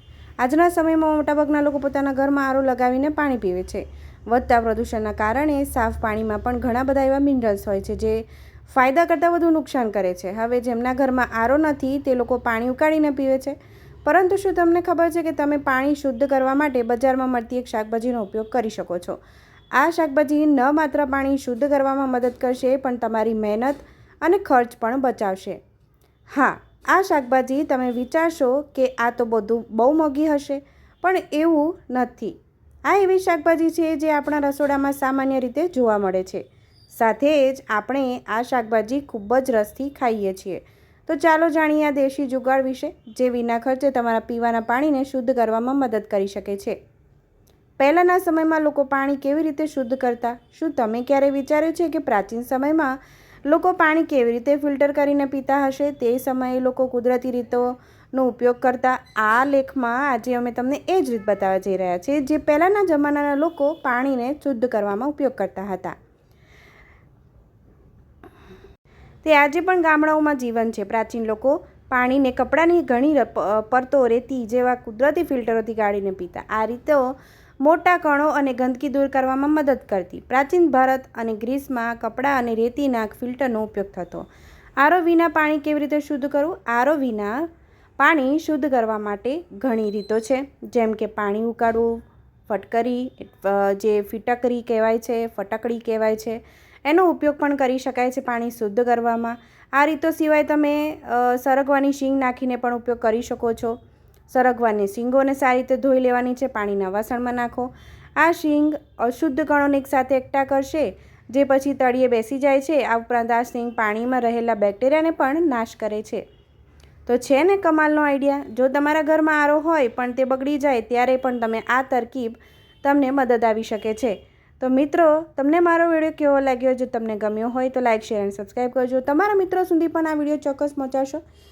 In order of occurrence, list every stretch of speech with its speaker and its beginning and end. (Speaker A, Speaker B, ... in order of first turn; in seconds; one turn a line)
Speaker A: 0.4-19.2
Speaker A: 19.8-25.6
Speaker A: 26.3-32.4
Speaker A: 32.9-46.8
Speaker A: 47.8-53.0
Speaker A: 53.5-66.0
Speaker A: 69.2-84.3
Speaker A: 84.8-87.3
Speaker A: 88.0-103.8
Speaker A: 104.3-116.2
Speaker A: 117.1-131.2